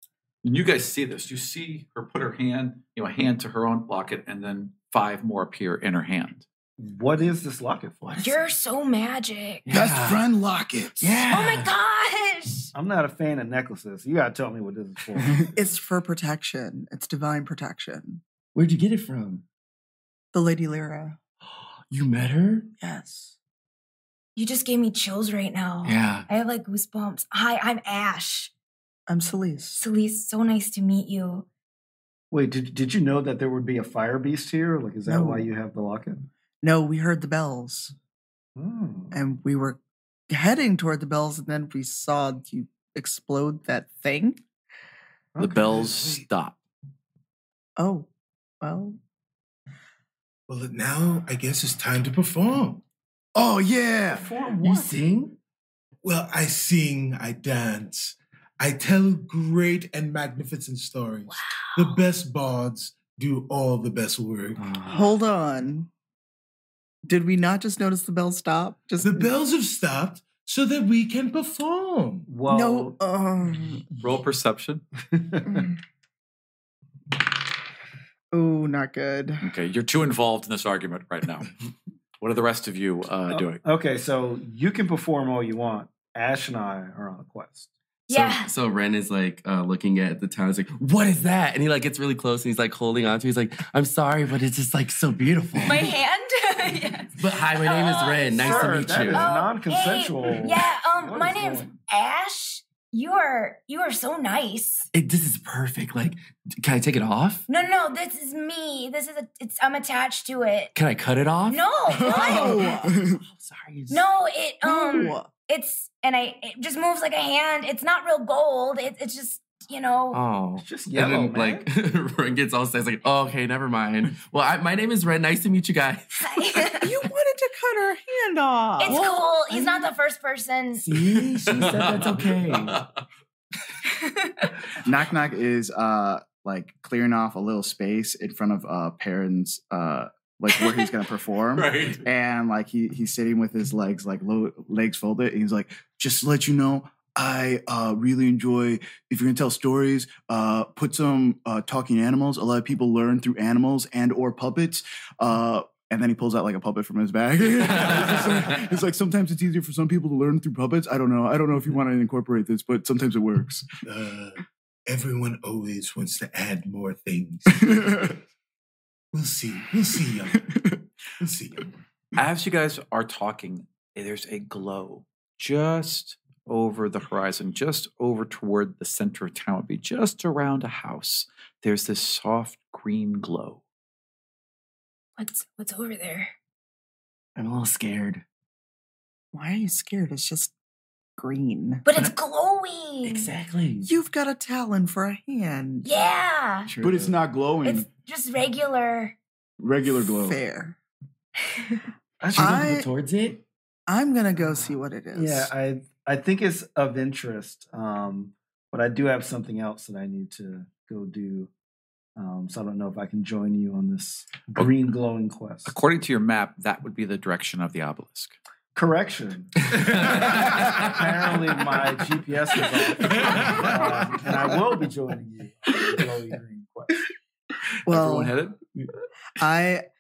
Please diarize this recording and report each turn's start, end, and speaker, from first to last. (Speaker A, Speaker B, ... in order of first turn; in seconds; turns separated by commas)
Speaker A: 0.4-6.5, Speaker B: 6.8-8.1, Speaker C: 8.0-8.4, Speaker D: 8.2-9.7, Speaker C: 9.7-10.2, Speaker E: 9.7-11.2, Speaker C: 11.0-11.7, Speaker D: 11.3-12.7, Speaker B: 12.7-15.5, Speaker F: 15.4-18.2, Speaker C: 18.6-19.4, Speaker F: 20.3-21.2, Speaker C: 21.5-22.7, Speaker F: 22.8-23.3, Speaker D: 24.4-28.5, Speaker C: 25.8-26.3, Speaker F: 29.1-29.8, Speaker D: 29.8-31.5, Speaker B: 32.3-36.3, Speaker F: 35.1-35.5, Speaker F: 36.6-37.9, Speaker B: 38.6-39.1, Speaker F: 39.1-44.4, Speaker B: 45.4-45.6, Speaker A: 45.4-46.6, Speaker G: 45.6-46.2, Speaker F: 47.8-48.1, Speaker F: 48.6-49.0, Speaker G: 50.5-52.8, Speaker E: 53.4-54.4, Speaker B: 54.1-55.0, Speaker C: 54.6-55.4, Speaker G: 56.0-64.7, Speaker D: 61.3-62.0, Speaker C: 64.6-65.1, Speaker F: 64.8-65.9, Speaker F: 67.0-69.3, Speaker G: 69.0-72.3, Speaker B: 72.3-73.0, Speaker F: 72.5-73.9, Speaker A: 74.0-74.8, Speaker B: 75.1-75.7, Speaker F: 75.5-75.8, Speaker F: 78.3-79.5, Speaker A: 79.4-81.5, Speaker A: 82.2-83.6, Speaker B: 83.3-87.7, Speaker D: 88.1-88.5, Speaker C: 88.1-95.9, Speaker D: 95.6-104.9, Speaker C: 97.2-99.4, Speaker B: 98.4-101.8, Speaker C: 104.9-107.4, Speaker D: 107.5-110.7, Speaker C: 110.8-114.1, Speaker D: 111.5-112.8, Speaker F: 112.0-112.9, Speaker E: 112.0-113.2, Speaker D: 113.9-120.2, Speaker F: 114.6-115.3, Speaker C: 120.1-126.4, Speaker B: 120.6-121.7, Speaker D: 126.2-126.9, Speaker F: 126.8-129.9, Speaker D: 128.8-130.9, Speaker C: 130.8-132.8, Speaker A: 131.6-131.9, Speaker D: 134.2-134.5, Speaker E: 134.8-163.7, Speaker D: 140.5-140.9, Speaker A: 141.6-142.0, Speaker G: 163.8-168.2, Speaker G: 169.1-170.5, Speaker G: 171.2-171.7, Speaker A: 172.2-183.6, Speaker D: 185.2-186.3, Speaker C: 187.4-188.2, Speaker F: 189.3-190.5, Speaker F: 191.2-191.9, Speaker D: 191.9-193.3, Speaker C: 193.0-193.9, Speaker F: 193.8-195.9, Speaker D: 195.8-196.7, Speaker C: 196.7-197.2, Speaker E: 196.8-197.9, Speaker D: 197.6-199.2, Speaker E: 199.6-200.4, Speaker F: 200.0-200.8, Speaker B: 202.2-202.7, Speaker C: 202.3-203.4, Speaker F: 202.3-202.9, Speaker F: 203.9-205.5, Speaker B: 205.1-211.5, Speaker B: 212.2-215.7, Speaker A: 215.7-218.3, Speaker B: 218.8-227.1, Speaker C: 220.2-220.7, Speaker G: 223.2-223.7, Speaker F: 227.9-228.3, Speaker A: 227.9-228.6, Speaker F: 229.4-229.9